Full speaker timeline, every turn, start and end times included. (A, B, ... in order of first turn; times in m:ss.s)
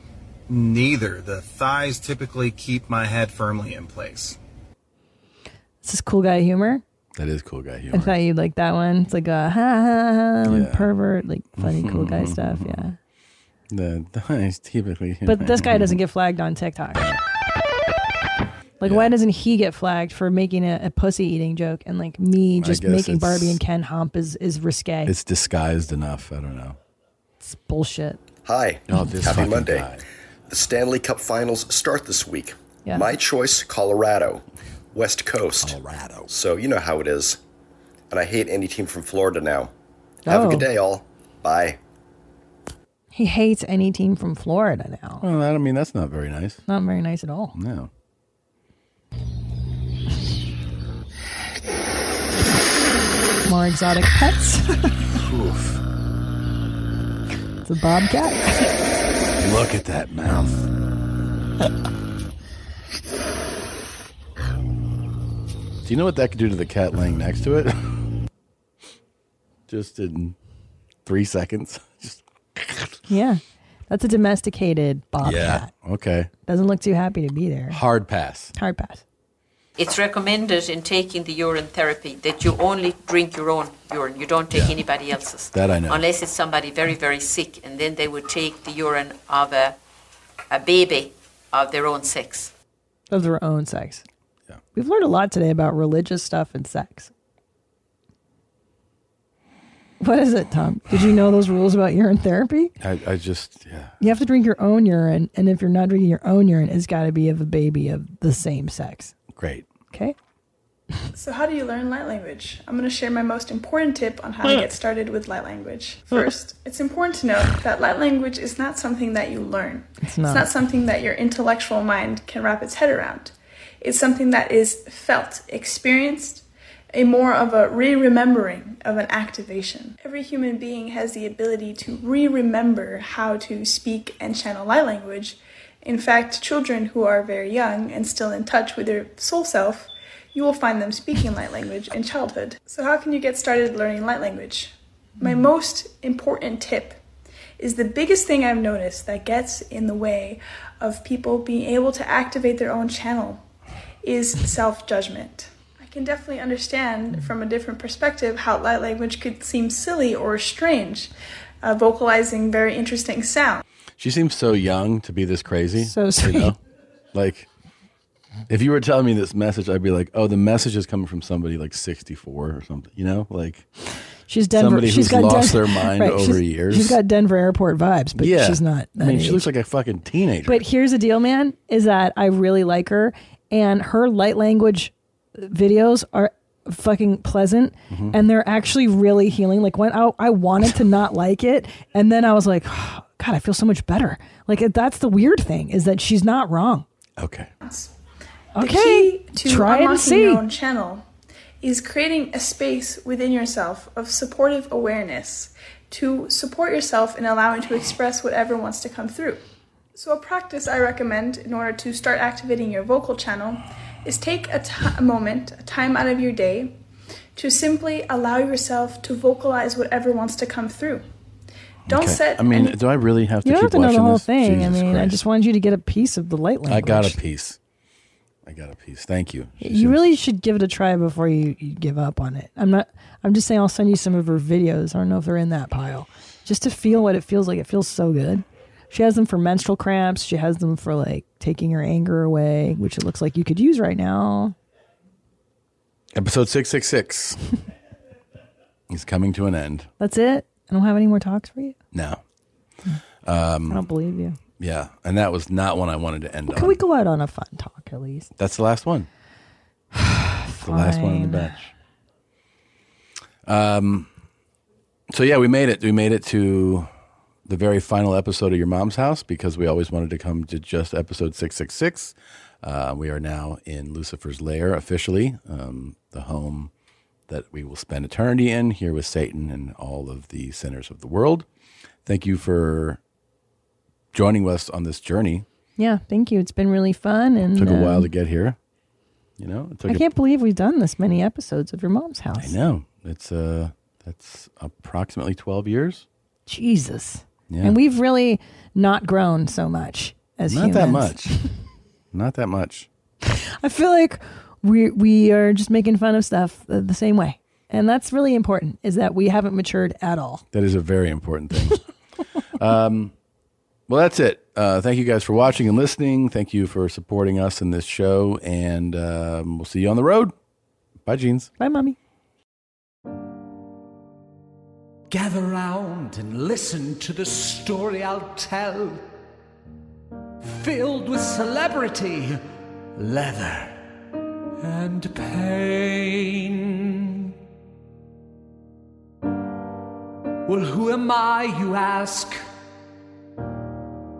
0:00.5-0:04.4 A
0:05.8-0:06.8 B
0:07.2-0:08.1 C
0:07.9-0:13.0 B
0:10.4-0:10.9 C
0:11.6-0:12.8 C
0:13.7-0:16.0 C
0:15.2-0:17.1 B
0:18.8-0:25.1 B
0:18.8-0:19.1 C
0:22.6-0:23.6 C
0:25.0-0:26.8 C
0:27.4-0:28.2 B
0:28.4-0:29.9 D
0:28.9-0:30.0 C
0:30.5-0:37.4 D
0:35.6-0:36.3 C
0:38.1-0:39.7 D
0:40.2-0:40.7 B
0:40.2-0:41.8 D
0:43.1-0:45.2 B
0:45.2-0:46.6 C
0:46.7-0:47.5 B
0:47.5-0:47.9 C
0:53.4-0:55.1 B
0:55.1-0:55.8 C
0:57.6-0:58.7 B
0:59.4-1:00.7 C
1:05.8-1:08.0 C
1:09.7-1:10.4 C
1:11.0-1:12.9 C
1:13.1-1:15.7 B
1:15.2-1:16.3 C
1:16.5-1:17.8 B
1:17.7-1:18.5 C
1:18.6-1:19.0 B
1:19.8-1:29.8 E
1:24.5-1:24.8 C
1:25.5-1:26.0 C
1:30.5-1:32.5 E
1:33.1-1:34.0 B
1:34.7-1:37.1 B
1:40.0-1:42.7 B
1:42.8-1:44.0 C
1:44.0-1:49.1 B
1:49.3-1:49.7 C
1:49.9-1:50.2 B
1:51.1-2:27.0 F
2:00.0-2:00.5 B
2:27.6-2:33.4 F
2:34.0-2:41.1 F
2:41.6-2:43.6 F
2:44.0-2:46.6 C
2:45.8-2:46.5 B
2:47.1-2:47.5 C
2:48.5-2:53.7 C
2:54.3-2:59.5 B
2:54.5-2:57.0 C
2:58.1-3:00.6 C
3:00.4-3:16.8 B
3:07.9-3:08.2 C
3:17.2-3:17.5 C
3:17.6-3:17.9 F
3:18.6-3:20.4 B
3:18.6-3:21.0 F
3:21.6-3:29.4 F
3:29.9-3:36.8 F
3:37.4-3:41.0 F
3:41.9-3:42.8 F
3:41.9-3:45.2 C
3:43.4-3:47.2 B
3:46.7-3:47.6 C
3:48.4-3:50.0 C
3:49.6-4:04.5 B
4:06.1-4:07.4 C
4:08.9-4:09.9 C
4:10.0-4:11.8 B
4:11.9-4:12.2 C
4:13.2-4:13.8 C
4:13.7-4:14.4 B
4:14.6-4:16.8 C
4:16.5-4:18.3 B
4:18.4-4:19.1 C
4:19.9-4:21.5 B
4:20.6-4:21.7 C
4:23.4-4:24.1 C
4:25.1-4:26.9 C
4:27.4-4:36.7 C
4:37.3-4:41.4 C
4:42.0-4:43.0 C
4:44.1-4:45.4 C
4:45.8-4:48.1 B
4:47.5-4:48.6 C
4:49.4-4:50.0 C
4:49.9-4:52.6 B
4:52.4-4:56.0 C
4:56.5-5:01.4 B
4:57.5-4:57.8 C
5:00.5-5:01.4 C
5:02.1-5:02.9 C
5:03.2-5:10.4 B
5:10.5-5:11.8 C
5:12.6-5:13.1 C
5:13.9-5:20.3 C
5:21.0-5:21.5 C
5:21.6-5:22.0 B
5:25.1-5:29.0 G
5:30.4-5:32.4 G
5:33.0-5:33.8 G
5:34.6-5:37.3 G
5:40.4-5:42.4 G